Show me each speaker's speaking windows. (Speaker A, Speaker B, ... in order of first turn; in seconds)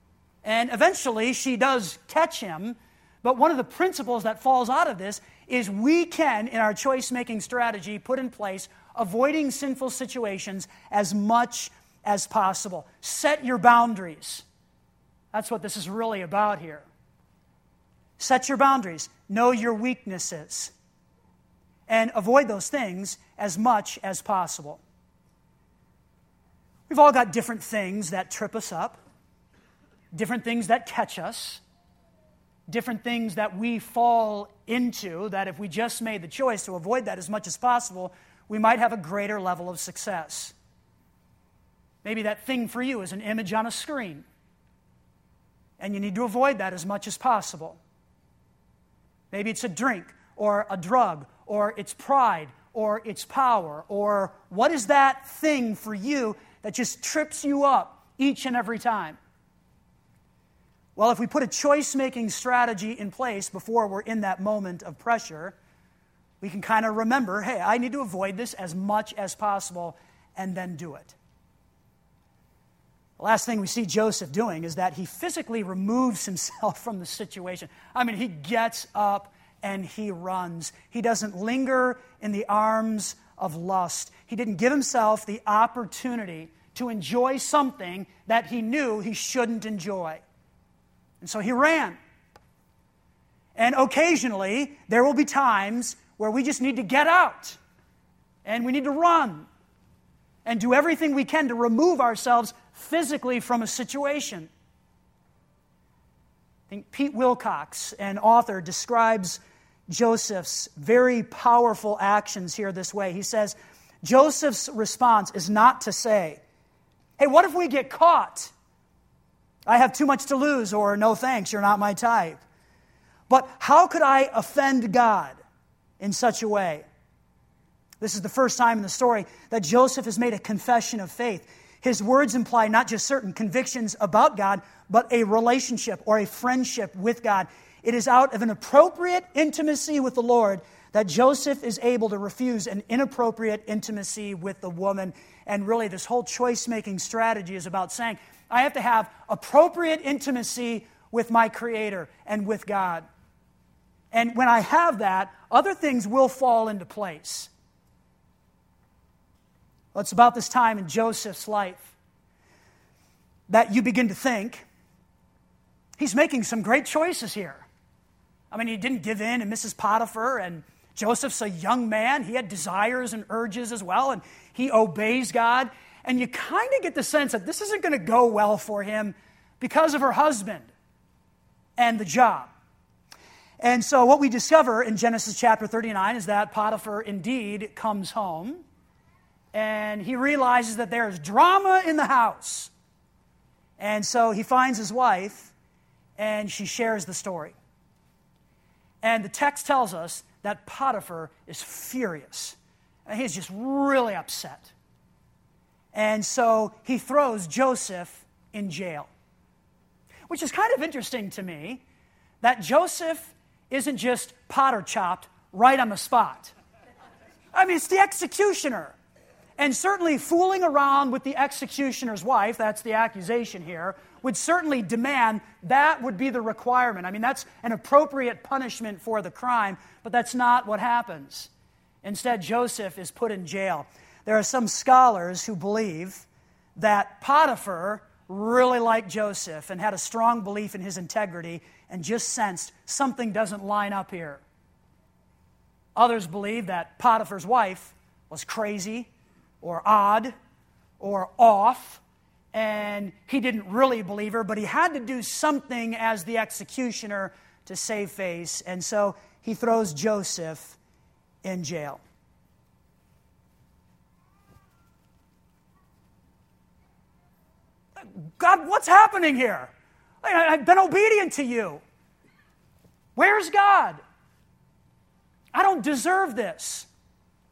Speaker A: 0.4-14.4, 15.3-16.9, 18.2-20.7, 21.9-24.8, 26.9-29.0, 30.1-31.6, 32.7-40.5, 42.0-44.2, 45.8-47.8, 49.3-59.2, 61.0-65.5, 66.4-71.2, 73.2-90.2, 91.2-92.0, 93.5-97.6, 98.4-99.5, 100.4-104.5, 106.7-116.4, 117.2-118.5, 119.7-122.4, 123.3-125.4, 126.0-126.8, 128.0-153.1, 154.1-157.5, 159.9-161.9, 163.5-164.7, 166.0-167.7, 168.5-180.7, 181.8-182.5, 183.6-188.6, 189.5-192.7, 193.8-195.5, 196.2-197.6, 199.0-204.7, 205.9-209.1, 210.3-211.8, 212.4-216.5, 217.5-218.9, 219.6-231.5, 232.0-244.4, 245.9-249.1, 249.6-250.3, 251.0-252.0, 252.5-260.8, 261.4-262.0, 268.0-269.7, 270.2-271.8, 273.1-274.0, 275.5-276.9